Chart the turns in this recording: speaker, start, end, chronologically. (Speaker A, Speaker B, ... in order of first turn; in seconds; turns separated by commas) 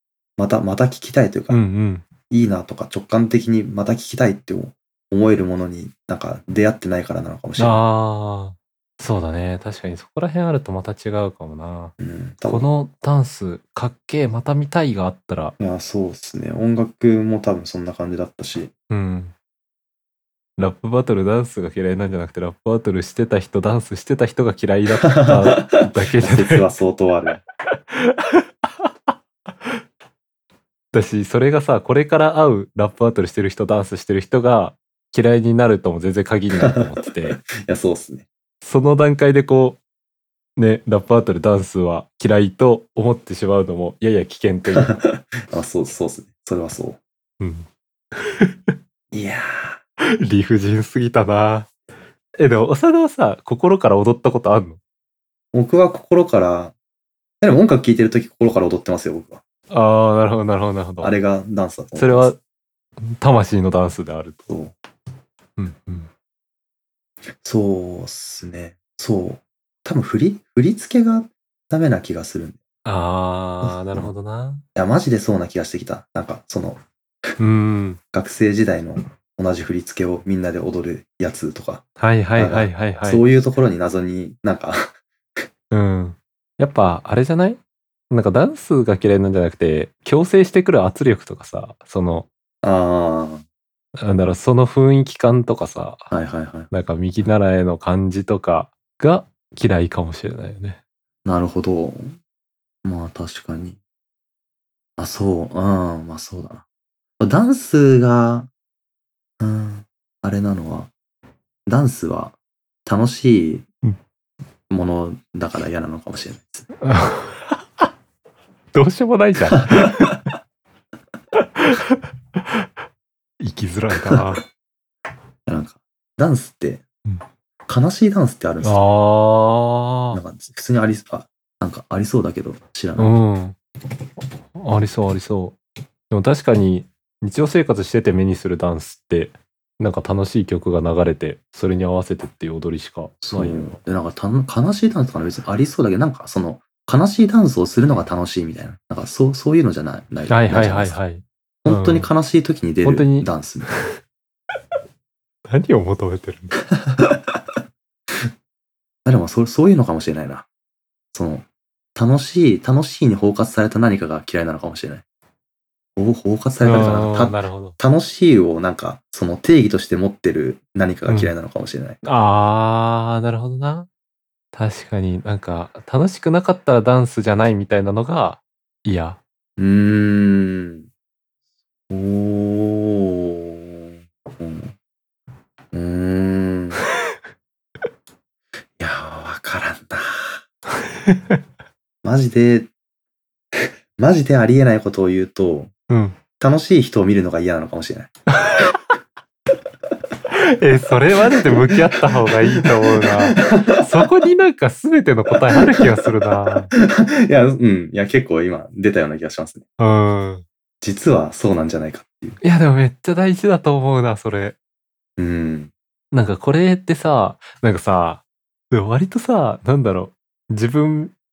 Speaker A: 0.4-1.6, Speaker B: 1.5-2.1, Speaker A: 2.3-7.8, Speaker B: 7.6-11.9, Speaker A: 12.0-12.7, Speaker B: 12.5-15.6, Speaker A: 15.6-18.7, Speaker B: 18.9-19.3, Speaker B: 20.6-26.7, Speaker A: 25.1-27.4, Speaker B: 27.9-28.9, Speaker B: 30.9-37.4, Speaker A: 36.6-38.3, Speaker B: 38.6-39.8, Speaker B: 40.6-45.0, Speaker A: 44.8-47.0, Speaker B: 47.4-48.8, Speaker A: 49.1-49.8, Speaker B: 50.0-51.7, Speaker B: 52.4-54.8, Speaker A: 55.5-56.7, Speaker A: 57.4-59.4, Speaker B: 59.7-61.1, Speaker A: 61.0-62.3, Speaker B: 62.0-62.4, Speaker B: 63.0-64.5, Speaker B: 65.6-66.1, Speaker A: 67.4-72.6, Speaker B: 72.8-74.6, Speaker A: 73.6-74.1, Speaker A: 74.8-76.8, Speaker B: 77.4-78.0, Speaker A: 78.1-81.8, Speaker B: 82.0-83.2, Speaker A: 82.4-85.0, Speaker B: 85.7-92.3, Speaker A: 92.6-93.4, Speaker B: 94.0-96.1, Speaker A: 96.1-96.7, Speaker B: 96.7-100.8, Speaker A: 101.2-102.1, Speaker A: 102.8-103.8, Speaker A: 105.0-106.6, Speaker A: 107.2-108.5, Speaker A: 109.4-110.9, Speaker A: 111.7-113.7, Speaker A: 114.7-116.7, Speaker B: 116.8-117.6, Speaker B: 118.7-120.2, Speaker A: 119.7-120.1, Speaker B: 121.5-122.7, Speaker B: 123.4-124.5, Speaker A: 125.5-126.8, Speaker A: 127.7-128.8, Speaker B: 128.6-130.2, Speaker A: 130.1-133.2, Speaker B: 133.0-133.6, Speaker B: 134.6-135.6, Speaker B: 136.1-143.8, Speaker A: 143.2-151.0, Speaker B: 150.3-152.1, Speaker A: 151.6-153.7, Speaker B: 152.8-154.0, Speaker B: 155.5-156.6, Speaker A: 156.9-157.3, Speaker A: 159.1-160.5, Speaker A: 161.1-165.0, Speaker A: 166.0-172.0, Speaker B: 166.6-167.8, Speaker B: 171.1-171.3, Speaker B: 172.0-173.9, Speaker B: 174.5-179.2, Speaker A: 179.6-180.9, Speaker A: 181.9-184.7, Speaker A: 185.7-186.8, Speaker A: 188.8-190.4, Speaker B: 191.1-191.4, Speaker A: 192.0-192.7, Speaker A: 194.0-195.7, Speaker B: 195.9-196.2, Speaker A: 196.4-198.1, Speaker B: 198.3-198.8, Speaker B: 200.3-206.7, Speaker A: 201.4-203.9, Speaker A: 205.6-205.9, Speaker A: 206.8-209.7, Speaker B: 209.8-210.4, Speaker A: 210.8-212.4, Speaker B: 212.4-214.6, Speaker A: 215.2-215.7, Speaker B: 216.1-221.1